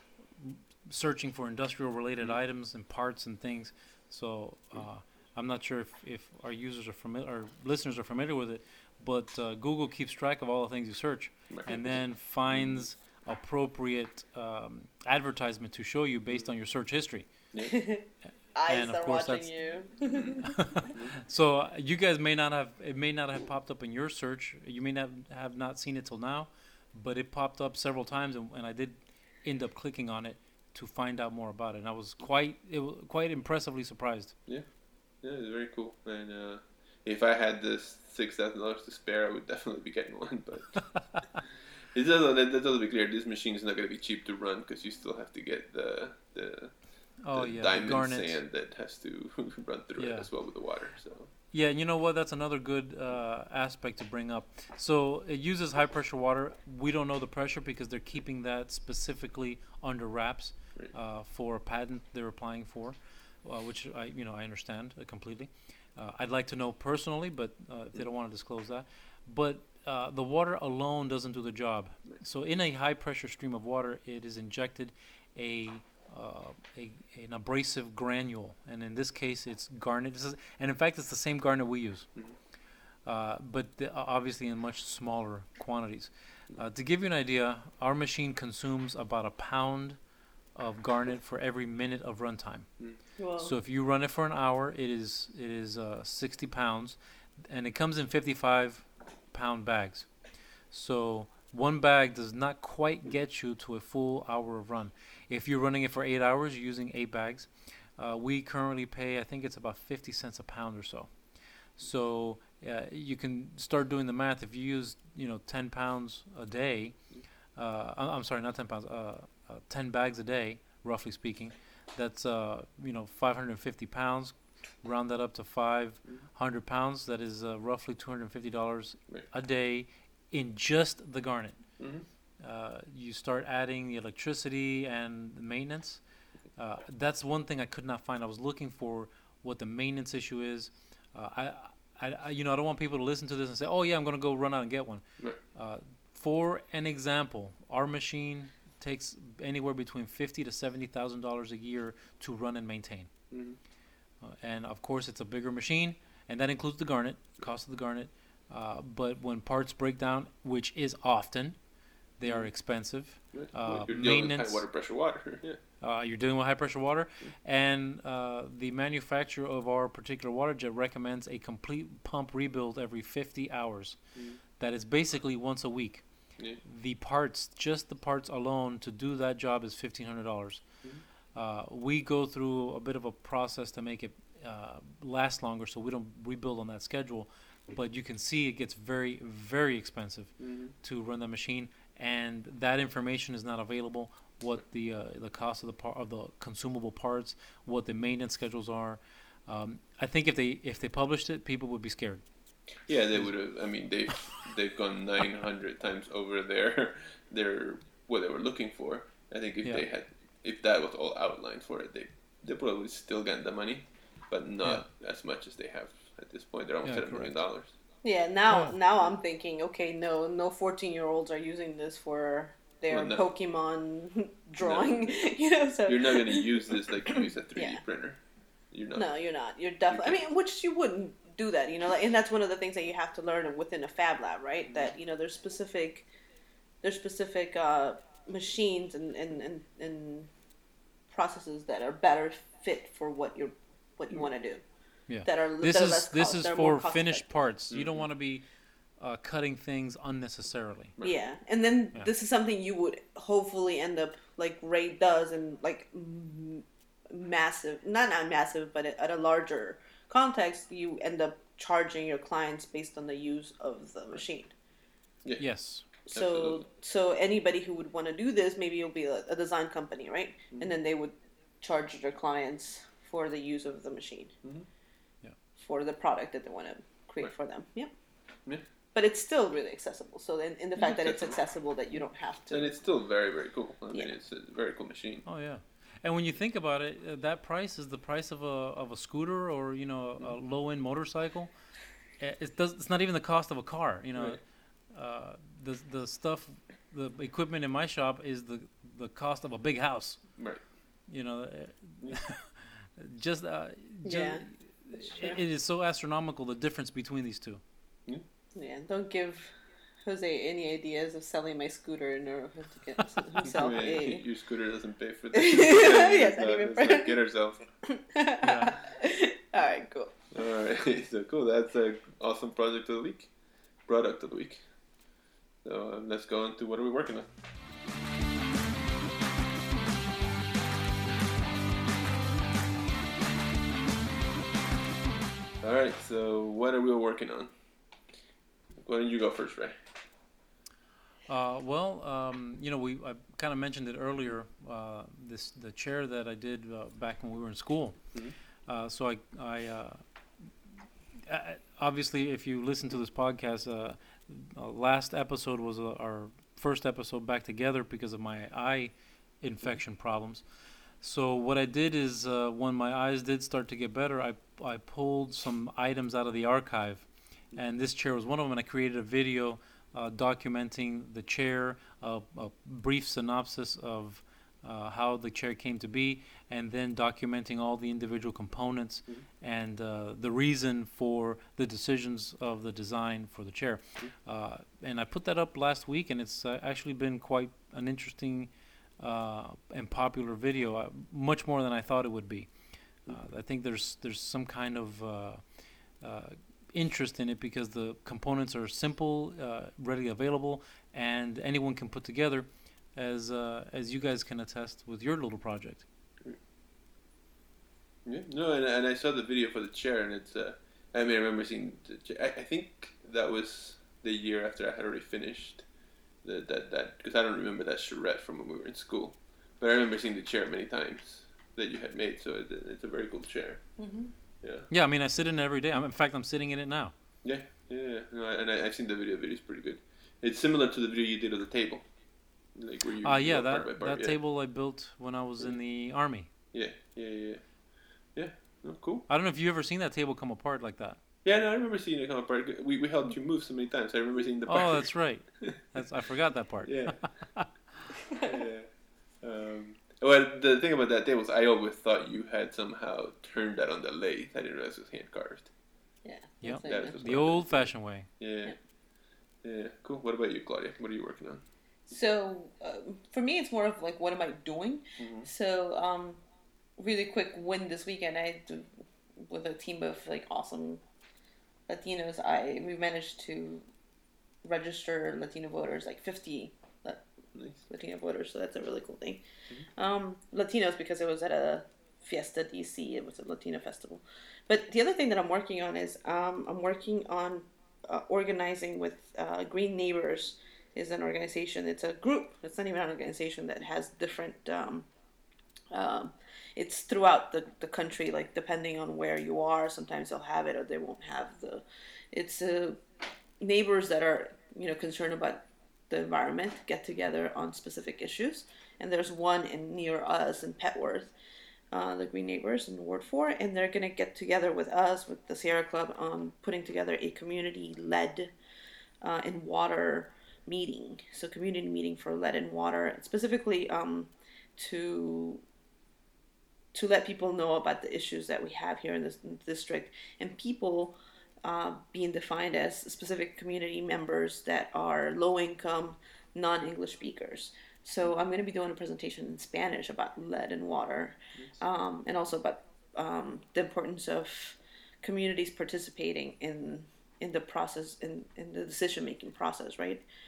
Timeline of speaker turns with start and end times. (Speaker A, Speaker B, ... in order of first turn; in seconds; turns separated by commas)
Speaker A: 0.4-17.3, Speaker B: 11.5-12.8, Speaker C: 17.6-20.5, Speaker A: 18.7-19.5, Speaker B: 20.1-21.2, Speaker A: 20.5-34.4, Speaker B: 35.2-41.0, Speaker B: 41.9-46.7, Speaker A: 47.2-48.4, Speaker B: 47.3-51.3, Speaker A: 50.0-50.3, Speaker A: 51.5-82.1, Speaker A: 83.1-90.0, Speaker A: 90.5-92.7, Speaker C: 93.2-93.5, Speaker A: 93.4-100.1, Speaker A: 100.7-111.1, Speaker A: 111.8-117.0, Speaker A: 117.6-131.8, Speaker B: 131.8-132.1, Speaker A: 132.4-136.0, Speaker A: 136.6-153.1, Speaker B: 153.3-153.6, Speaker A: 154.2-161.6, Speaker A: 162.2-164.7, Speaker B: 162.2-162.5, Speaker B: 163.3-165.6, Speaker A: 165.8-174.0, Speaker A: 174.6-176.0, Speaker A: 176.6-180.6, Speaker A: 181.3-202.2, Speaker B: 190.4-190.7, Speaker B: 202.9-217.8, Speaker A: 216.8-217.4, Speaker C: 218.0-227.8, Speaker A: 218.5-218.8, Speaker B: 222.9-223.3, Speaker B: 224.6-225.2, Speaker B: 225.9-228.2, Speaker B: 228.7-229.1, Speaker C: 228.9-236.1, Speaker B: 229.9-230.2, Speaker B: 234.7-234.9, Speaker C: 236.8-240.3, Speaker C: 241.1-244.6, Speaker A: 245.1-248.4, Speaker C: 245.2-247.3, Speaker B: 247.7-248.1, Speaker A: 249.0-251.0, Speaker C: 251.0-264.5, Speaker A: 265.4-265.9, Speaker C: 266.1-274.3, Speaker B: 266.1-266.6, Speaker B: 274.4-274.7, Speaker C: 275.6-277.9, Speaker C: 278.9-282.7, Speaker B: 280.8-281.4, Speaker B: 282.5-285.2, Speaker A: 285.2-291.5, Speaker A: 292.2-300.3, Speaker B: 294.1-294.4, Speaker A: 301.1-307.6, Speaker C: 304.0-304.5, Speaker C: 305.0-305.4, Speaker C: 308.6-309.5, Speaker C: 310.0-314.2, Speaker B: 313.4-317.6, Speaker C: 315.3-317.2, Speaker C: 317.9-320.1, Speaker A: 318.4-318.8, Speaker B: 320.3-323.3, Speaker B: 323.8-324.6, Speaker B: 325.6-327.3, Speaker B: 335.6-337.5, Speaker B: 338.8-339.8, Speaker A: 341.3-348.0, Speaker A: 348.7-350.0, Speaker A: 351.3-360.4, Speaker A: 361.0-392.5, Speaker A: 393.1-395.4, Speaker A: 396.0-405.9, Speaker B: 408.1-415.7, Speaker B: 416.2-423.6, Speaker C: 423.8-424.1, Speaker B: 424.4-424.7, Speaker A: 424.7-426.9, Speaker B: 427.2-431.9, Speaker B: 432.6-434.2, Speaker A: 433.0-436.3, Speaker B: 436.5-437.4, Speaker B: 438.1-439.1, Speaker A: 439.1-441.0, Speaker B: 441.2-445.7, Speaker A: 444.5-447.8, Speaker B: 446.6-447.1, Speaker C: 448.1-448.4, Speaker B: 448.2-448.7, Speaker B: 449.2-455.5, Speaker C: 456.0-457.0, Speaker A: 456.4-458.1, Speaker B: 456.6-458.6, Speaker B: 459.4-461.4, Speaker C: 461.9-466.2, Speaker B: 465.0-465.3, Speaker C: 466.8-470.8, Speaker C: 471.7-473.7, Speaker C: 474.4-477.1, Speaker B: 477.3-477.6, Speaker C: 477.7-479.2, Speaker C: 479.8-494.9, Speaker C: 495.7-502.8, Speaker C: 503.4-511.1, Speaker C: 511.7-518.3, Speaker C: 519.0-525.4, Speaker C: 526.7-550.0